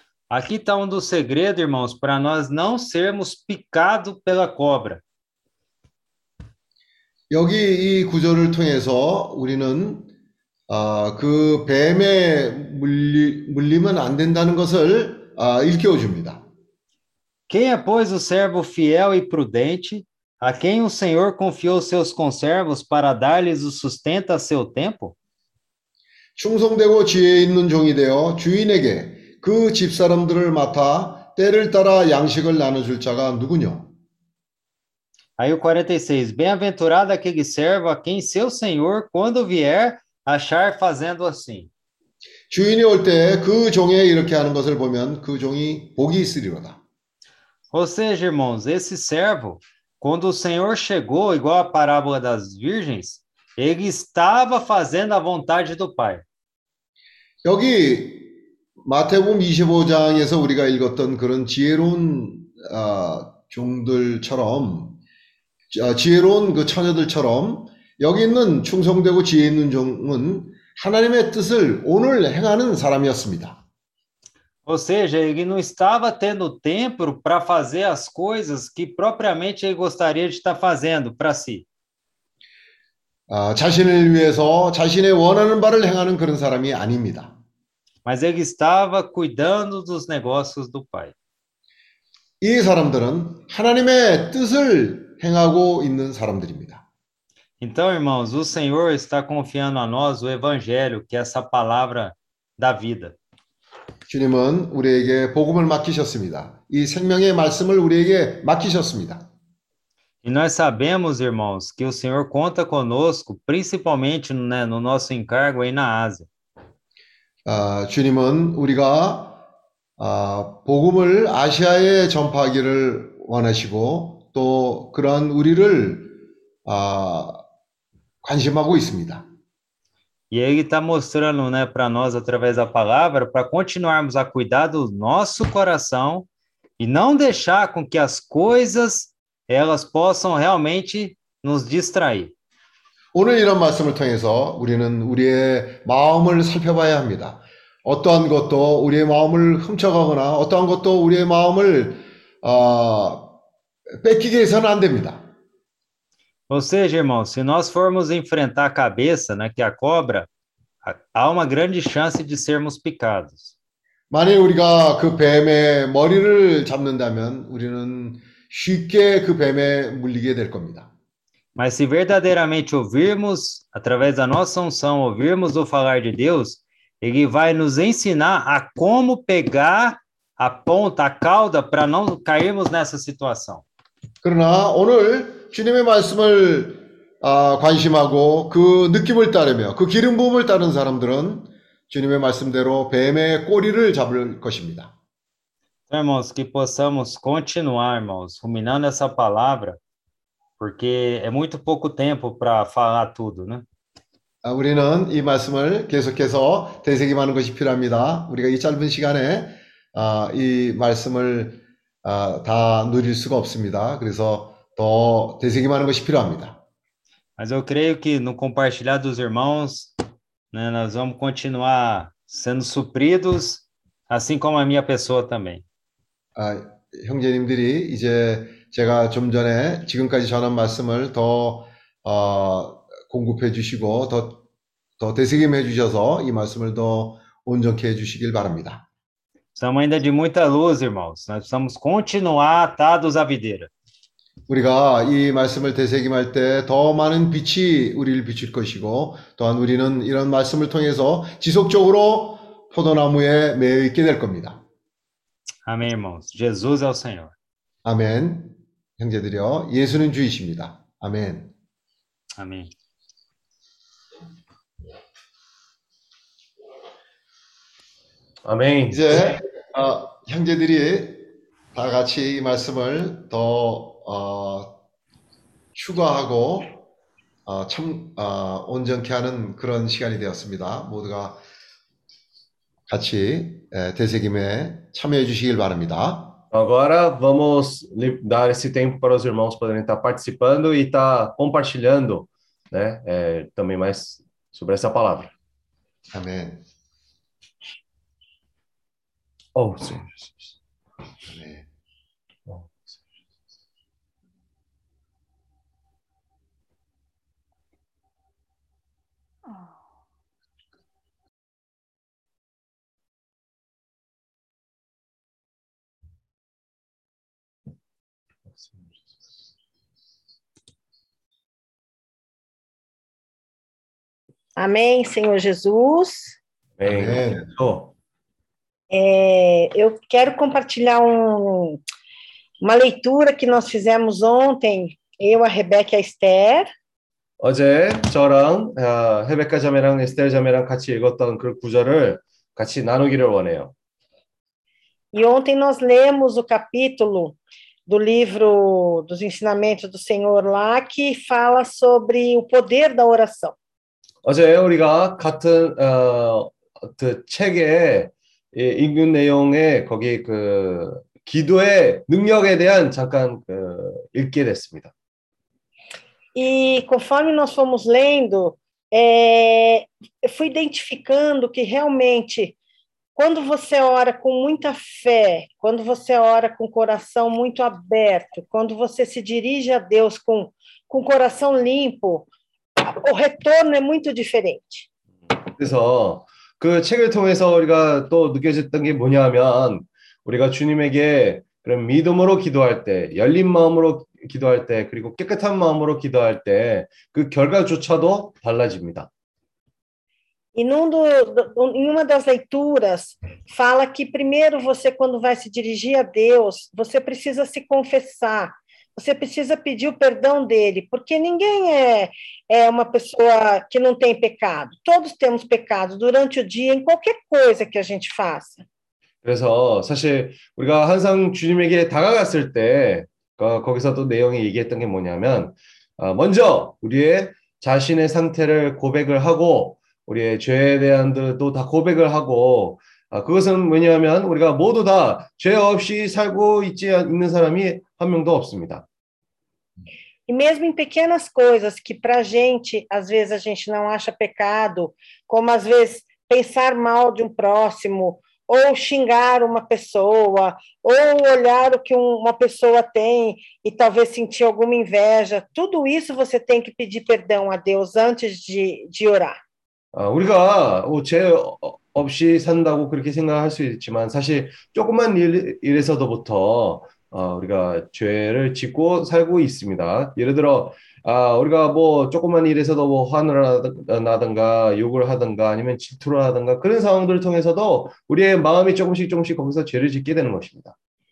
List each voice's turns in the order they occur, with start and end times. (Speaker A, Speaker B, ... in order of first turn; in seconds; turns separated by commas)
Speaker A: 0.3-5.0, Speaker B: 7.3-10.1, Speaker B: 10.7-16.4, Speaker A: 17.5-25.1, Speaker B: 26.4-33.9, Speaker A: 35.4-41.7, Speaker B: 42.5-46.8, Speaker A: 47.7-56.2, Speaker B: 57.4-65.0, Speaker B: 65.7-73.6, Speaker A: 74.7-81.7, Speaker B: 83.3-87.3, Speaker A: 88.0-91.1, Speaker B: 92.4-96.8, Speaker A: 97.6-103.2, Speaker B: 104.1-109.3, Speaker A: 110.2-116.3, Speaker B: 117.4-119.4, Speaker B: 120.0-127.4, Speaker B: 128.2-129.3, Speaker A: 130.3-136.3, Speaker A: 136.8-142.3, Speaker B: 143.1-153.3, Speaker B: 154.0-155.2, Speaker A: 156.5-160.3, Speaker A: 160.8-163.5, Speaker B: 164.1-170.9, Speaker A: 171.6-183.6, Speaker B: 184.2-194.9, Speaker A: 195.9-199.8, Speaker A: 200.6-203.6, Speaker B: 204.4-216.6, Speaker A: 217.4-219.9, Speaker A: 220.5-225.6, Speaker B: 226.3-234.4, Speaker B: 235.0-238.8, Speaker A: 239.6-243.7, Speaker B: 244.5-254.6, Speaker A: 255.7-257.3, Speaker B: 257.8-261.5, Speaker A: 262.4-262.7, Speaker C: 268.4-269.4, Speaker B: 268.9-274.8, Speaker B: 275.7-276.8, Speaker B: 277.4-281.4, Speaker B: 282.9-286.4, Speaker C: 286.5-295.3, Speaker B: 296.1-296.6, Speaker C: 299.5-300.5, Speaker B: 301.3-301.6, Speaker C: 302.5-302.9, Speaker D: 324.6-326.4, Speaker C: 326.8-327.9, Speaker B: 326.8-327.4, Speaker D: 328.9-331.8, Speaker D: 332.6-336.7, Speaker C: 337.4-343.7, Speaker D: 345.1-353.5, Speaker C: 354.2-364.9, Speaker D: 366.3-372.6, Speaker D: 373.1-382.3, Speaker D: 382.8-384.9, Speaker C: 385.5-399.1, Speaker D: 400.5-418.6, Speaker C: 419.2-438.9, Speaker D: 440.3-459.4, Speaker C: 459.9-480.7